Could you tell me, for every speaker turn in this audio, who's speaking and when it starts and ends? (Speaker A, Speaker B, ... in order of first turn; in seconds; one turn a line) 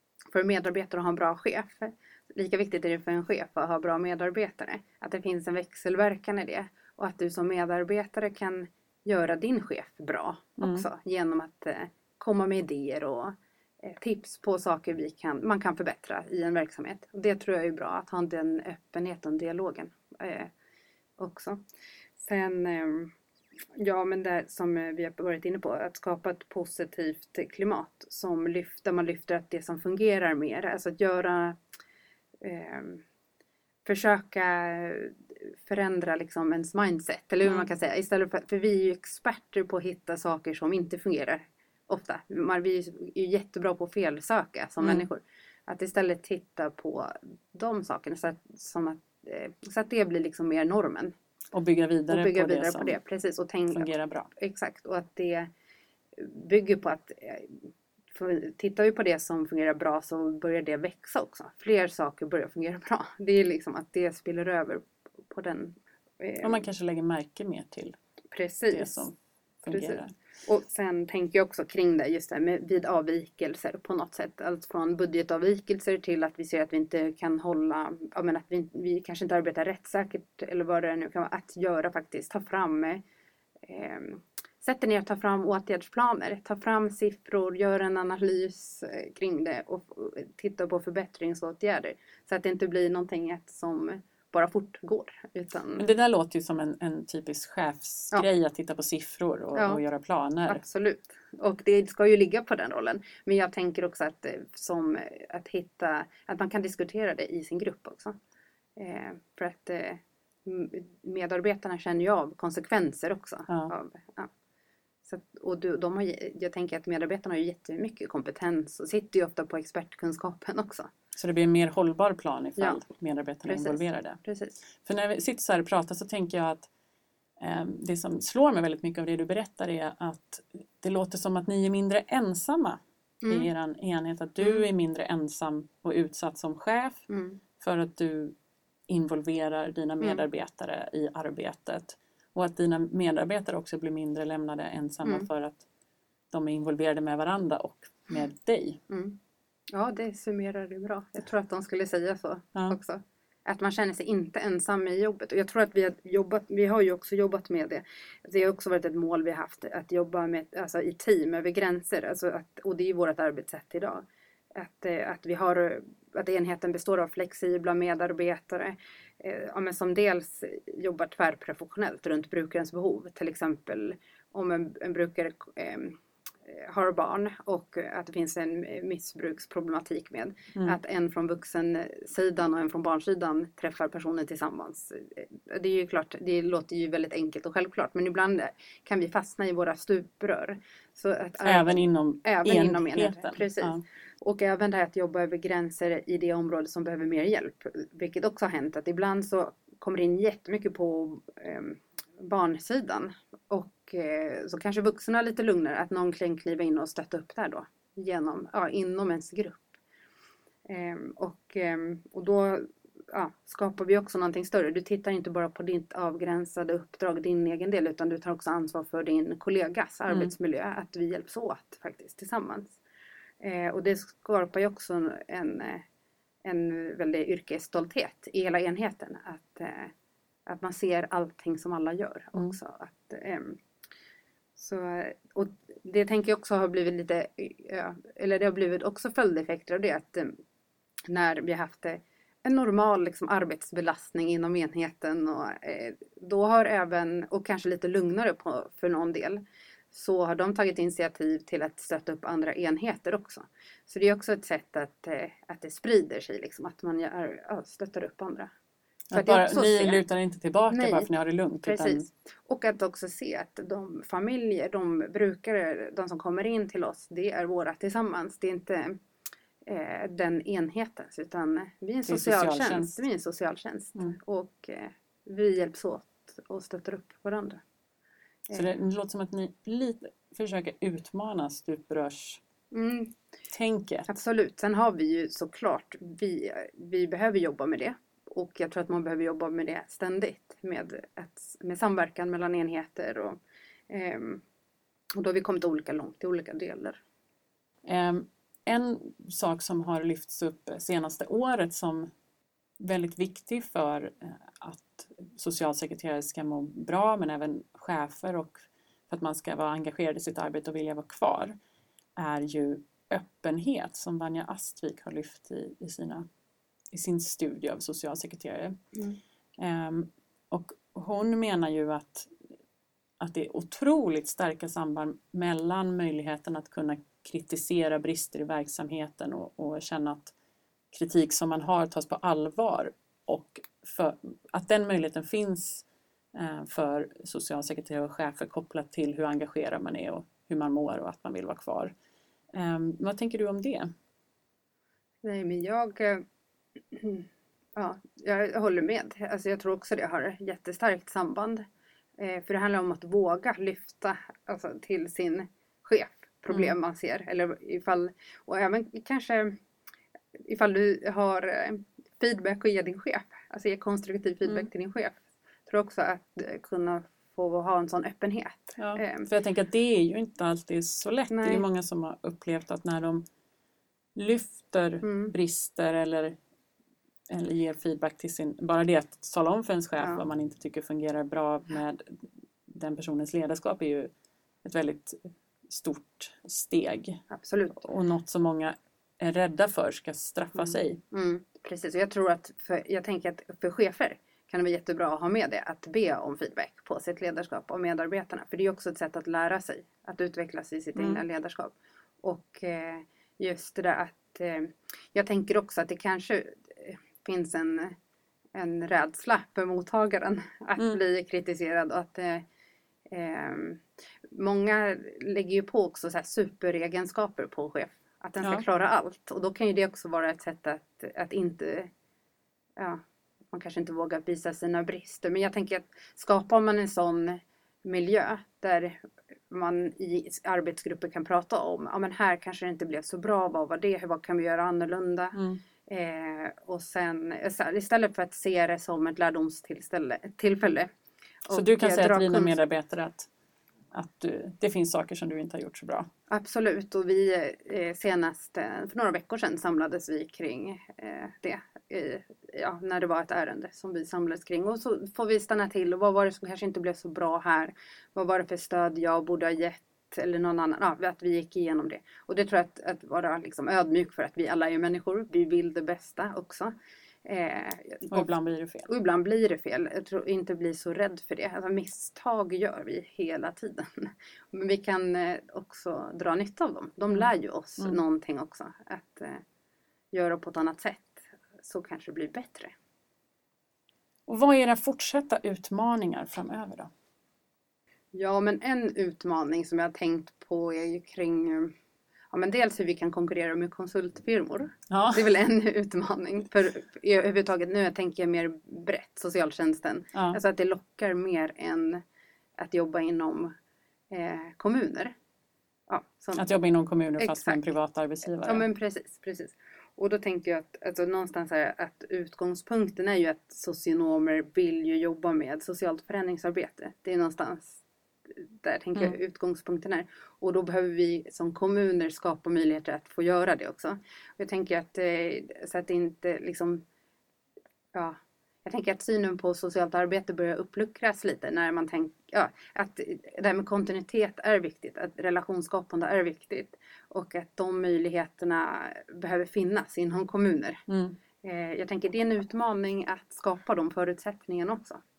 Speaker A: 0.3-20.5
Speaker B: 10.6-10.9
Speaker A: 21.2-21.6
Speaker A: 22.2-23.1
Speaker A: 23.8-31.6
Speaker A: 32.4-33.0
Speaker A: 33.9-51.1
Speaker B: 44.8-45.1
Speaker B: 51.5-53.0
Speaker A: 52.1-55.5
Speaker B: 53.7-54.3
Speaker A: 56.2-66.6
Speaker B: 66.4-68.0
Speaker A: 68.3-69.1
Speaker B: 68.7-70.1
Speaker A: 69.7-83.0
Speaker A: 83.7-95.8
Speaker B: 95.8-100.6
Speaker A: 99.5-99.8
Speaker A: 100.5-108.2
Speaker A: 108.8-114.3
Speaker A: 115.1-120.9
Speaker B: 121.2-124.2
Speaker A: 123.5-124.5
Speaker B: 124.8-126.7
Speaker B: 127.4-137.0
Speaker A: 133.2-133.5
Speaker A: 137.1-137.4
Speaker B: 137.6-138.3
Speaker B: 138.9-145.7
Speaker B: 146.3-148.8
Speaker A: 148.9-149.2
Speaker A: 149.7-209.8
Speaker B: 191.4-193.8
Speaker A: 210.7-222.8
Speaker A: 223.4-225.8
Speaker A: 226.4-229.9
Speaker A: 230.5-233.6
Speaker A: 234.6-240.4
Speaker A: 241.1-258.5
Speaker B: 259.1-262.1
Speaker A: 259.1-260.0
Speaker A: 260.7-261.1
Speaker A: 261.6-269.0
Speaker A: 269.7-277.6
Speaker B: 272.1-273.0
Speaker B: 278.5-282.4
Speaker A: 282.7-283.1
Speaker B: 283.5-284.1
Speaker A: 284.1-293.4
Speaker A: 293.9-294.4
Speaker A: 295.2-297.0
Speaker B: 297.9-302.1
Speaker B: 302.8-311.6
Speaker B: 312.2-316.3
Speaker B: 316.9-318.8
Speaker B: 319.6-322.3
Speaker B: 323.2-330.3
Speaker B: 330.9-341.9
Speaker B: 342.5-343.9
Speaker A: 345.2-346.2
Speaker A: 346.9-351.6
Speaker A: 352.2-359.6
Speaker A: 360.5-369.3
Speaker B: 368.8-373.2
Speaker A: 371.3-371.6
Speaker B: 374.1-376.4
Speaker A: 375.0-375.3
Speaker B: 377.3-384.1
Speaker A: 380.0-380.2
Speaker B: 384.6-387.2
Speaker A: 387.3-387.8
Speaker B: 387.8-391.0
Speaker A: 390.6-408.0
Speaker B: 401.0-401.2
Speaker A: 408.5-412.4
Speaker A: 413.1-421.9
Speaker A: 422.8-440.9
Speaker B: 435.4-435.6
Speaker A: 441.4-442.6
Speaker B: 441.5-443.3
Speaker B: 443.9-446.1
Speaker A: 446.3-466.7
Speaker A: 467.2-468.3
Speaker B: 468.1-468.9
Speaker A: 468.9-479.4
Speaker A: 480.1-482.7
Speaker B: 484.3-486.9
Speaker A: 488.1-491.7
Speaker A: 492.3-502.0
Speaker B: 494.9-495.3
Speaker B: 500.1-500.4
Speaker A: 502.6-503.5
Speaker A: 504.1-505.1
Speaker A: 505.9-506.5
Speaker B: 506.3-508.7
Speaker A: 507.2-507.6
Speaker A: 508.4-517.8
Speaker A: 518.6-526.8
Speaker A: 527.9-540.8
Speaker B: 540.9-541.2
Speaker A: 541.4-545.0